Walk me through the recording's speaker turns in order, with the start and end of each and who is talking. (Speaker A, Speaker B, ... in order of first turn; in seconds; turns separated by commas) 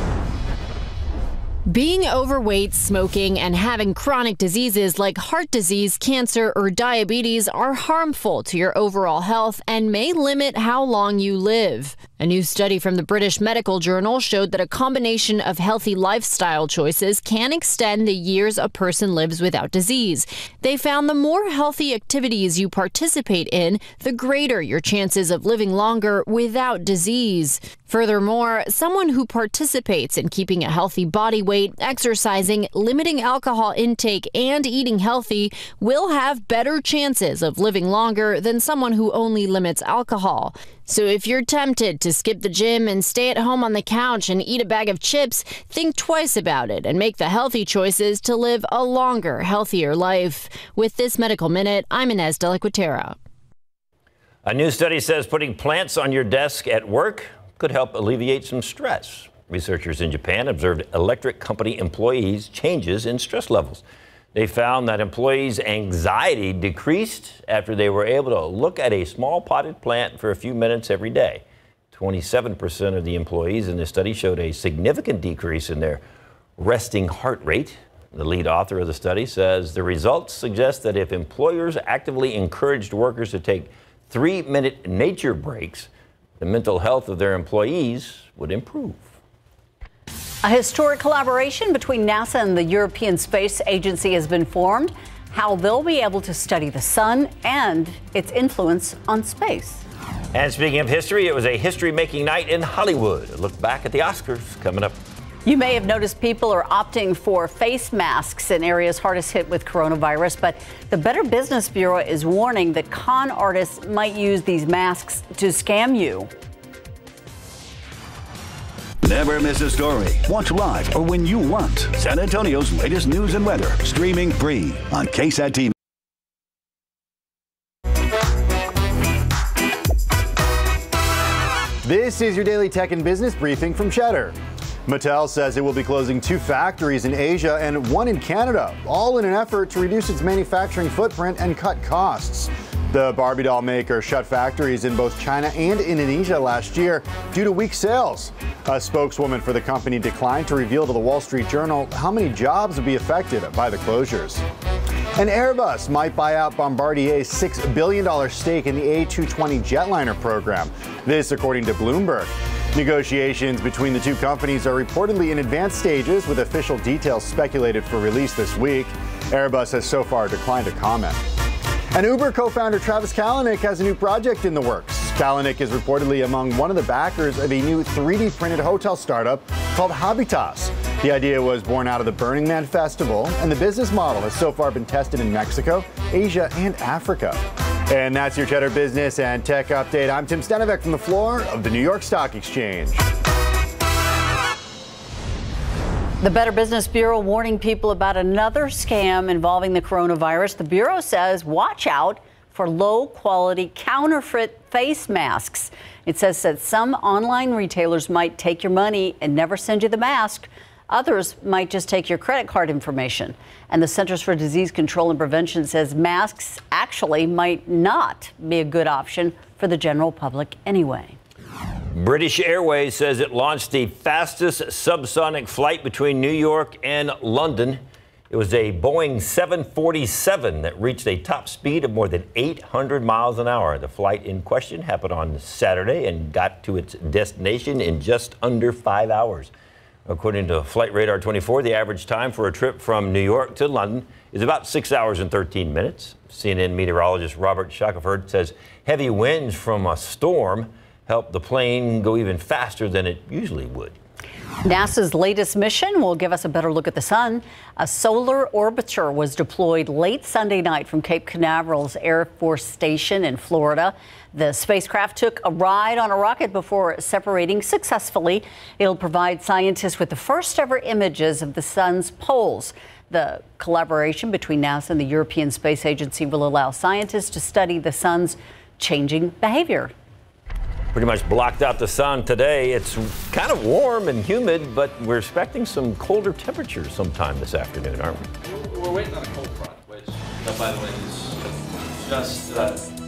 Speaker A: 1.7-53.1, Speaker B: 54.4-63.8, Speaker B: 64.3-76.0, Speaker B: 76.6-85.9, Speaker B: 86.4-89.1, Speaker C: 90.4-99.8, Speaker B: 100.3-104.9, Speaker C: 105.4-116.3, Speaker D: 119.0-125.7, Speaker E: 131.8-134.3, Speaker E: 134.9-154.4, Speaker E: 155.2-171.2, Speaker E: 171.9-187.4, Speaker E: 187.9-193.0, Speaker C: 196.2-221.2, Speaker B: 221.9-239.5, Speaker B: 240.1-254.0, Speaker C: 254.6-279.9, Speaker B: 280.9-288.2, Speaker F: 288.4-292.8